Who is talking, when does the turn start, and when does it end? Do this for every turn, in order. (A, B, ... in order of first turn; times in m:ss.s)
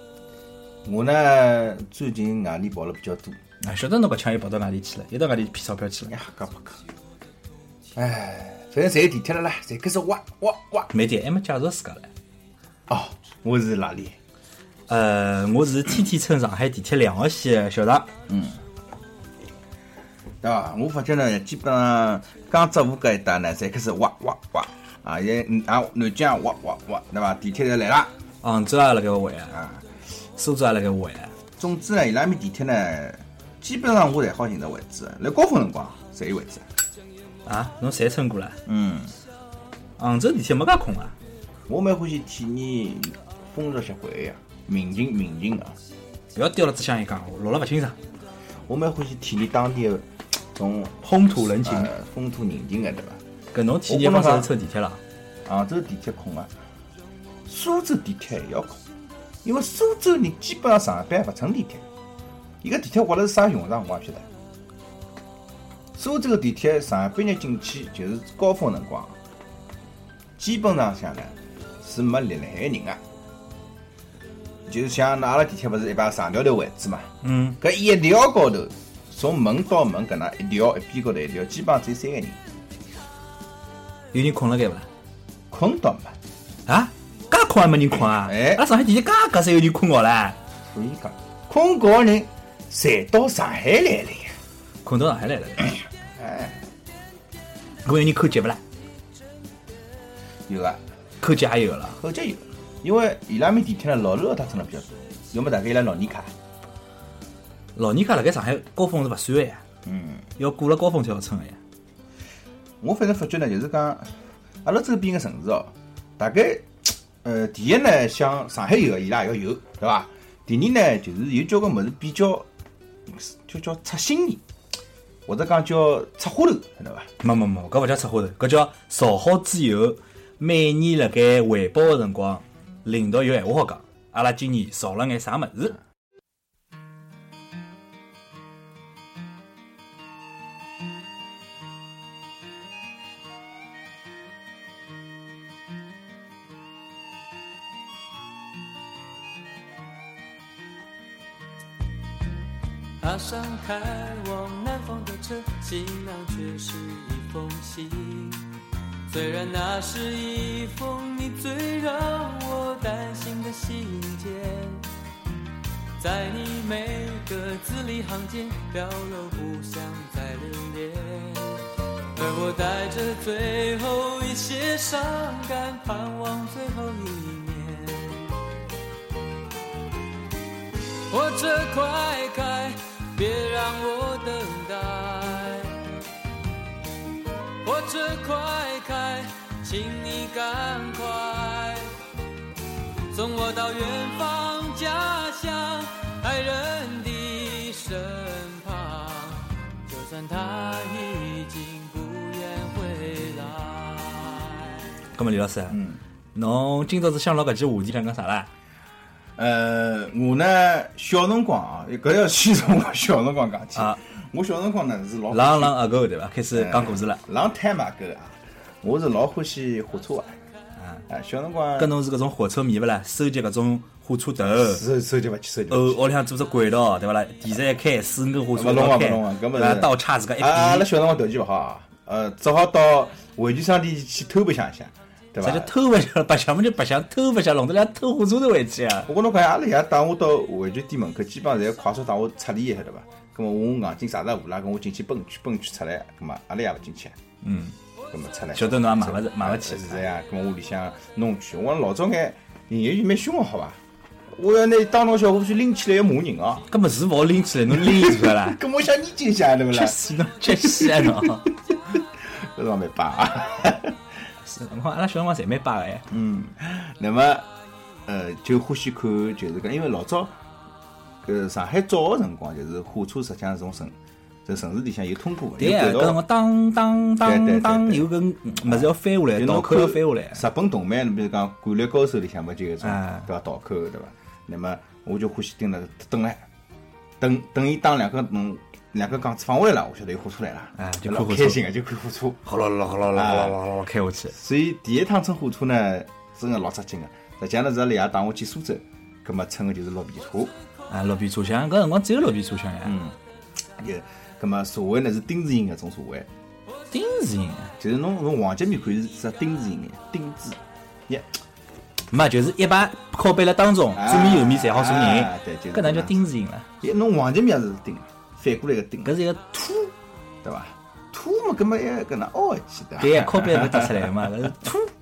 0:00.8-0:03.4 A
0:03.6-0:06.1 B
0:06.0-0:06.8 A
0:07.9-0:10.9 A
0:10.9-0:12.1 B
0:12.9-0:14.2 A
0:14.9-0:18.1 B
0:18.3-0:18.6 A
0:20.4-0:28.1 A
0:28.4-0:29.6 B
0:29.5-0:29.8 A
0:30.4-0:31.3 B
0:31.6-0:36.6 A
0:37.4-0:38.6 B
0:38.6-0:39.1 A
0:40.0-0:41.1 B
0:41.7-0:45.8 A
0:46.3-0:48.0 B
0:48.7-0:53.2 A
0:51.1-0:51.9 B
0:53.5-0:55.0 B
0:53.9-0:54.5 A
0:55.4-0:56.5 A
0:57.4-0:58.8 A
0:59.4-1:01.8 A
1:02.6-1:04.3 A
1:06.0-1:09.2 A
1:10.4-1:13.0 A
1:14.7-1:22.4 A
1:17.2-1:17.6 B
1:24.1-1:24.9 B
1:25.5-1:26.1 A
1:26.7-1:30.4 B
1:28.1-1:28.6 A
1:30.7-1:34.3 A
1:34.8-1:35.7 B
1:36.2-1:36.6 A
1:37.8-1:38.6 B
1:40.5-1:40.8 A
1:41.2-1:42.0 B
1:42.0-1:46.3 A
1:47.7-1:49.6 B
1:49.8-1:50.2 A
1:50.4-1:51.6 B
1:52.8-1:54.1 A
1:54.6-2:02.4 A
2:03.1-2:04.4 A
2:05.3-2:07.1 A
2:07.2-2:15.8 B
2:33.0-2:38.4 C
2:39.1-2:44.8 C
2:46.0-2:58.4 C
3:01.1-3:05.9 C
3:07.6-3:11.9 C
3:13.1-3:24.8 C
3:25.1-3:25.8 B
3:25.7-3:26.0 A
3:26.3-3:28.5 B
3:29.4-3:35.8 A
3:35.3-3:37.2 B
3:36.5-3:40.4 A
3:41.1-3:41.9 A
3:41.8-3:44.8 B
3:44.6-3:46.0 A
3:45.7-3:50.9 B
3:48.5-3:55.7 A
3:55.4-3:59.1 B
3:59.1-4:07.2 A
4:07.4-4:07.7 B
4:08.1-4:13.8 A
4:08.5-4:10.0 B
4:14.3-4:16.7 A
4:16.7-4:18.6 B
4:17.7-4:20.0 A
4:19.7-4:21.5 B
4:20.5-4:24.0 A
4:24.4-4:26.1 B
4:26.1-4:27.5 A
4:28.0-4:30.3 A
4:31.2-4:33.9 A
4:34.4-4:36.2 A
4:35.6-4:40.4 B
4:37.2-4:38.1 A
4:38.6-4:46.4 A
4:42.8-4:43.2 B
4:47.2-4:52.4 A
4:50.8-4:51.6 B
4:52.4-4:54.3 B
4:53.1-4:53.6 A
4:54.3-5:00.5 A
5:00.9-5:02.9 B
5:02.8-5:03.2 A
5:03.8-5:06.3 A
5:06.9-5:07.7 B
5:07.8-5:11.2 A
5:12.1-5:16.7 B
5:13.9-5:16.2 A
5:16.8-5:19.1 A
5:19.0-5:19.9 B
5:20.4-5:24.3 A
5:23.0-5:24.9 B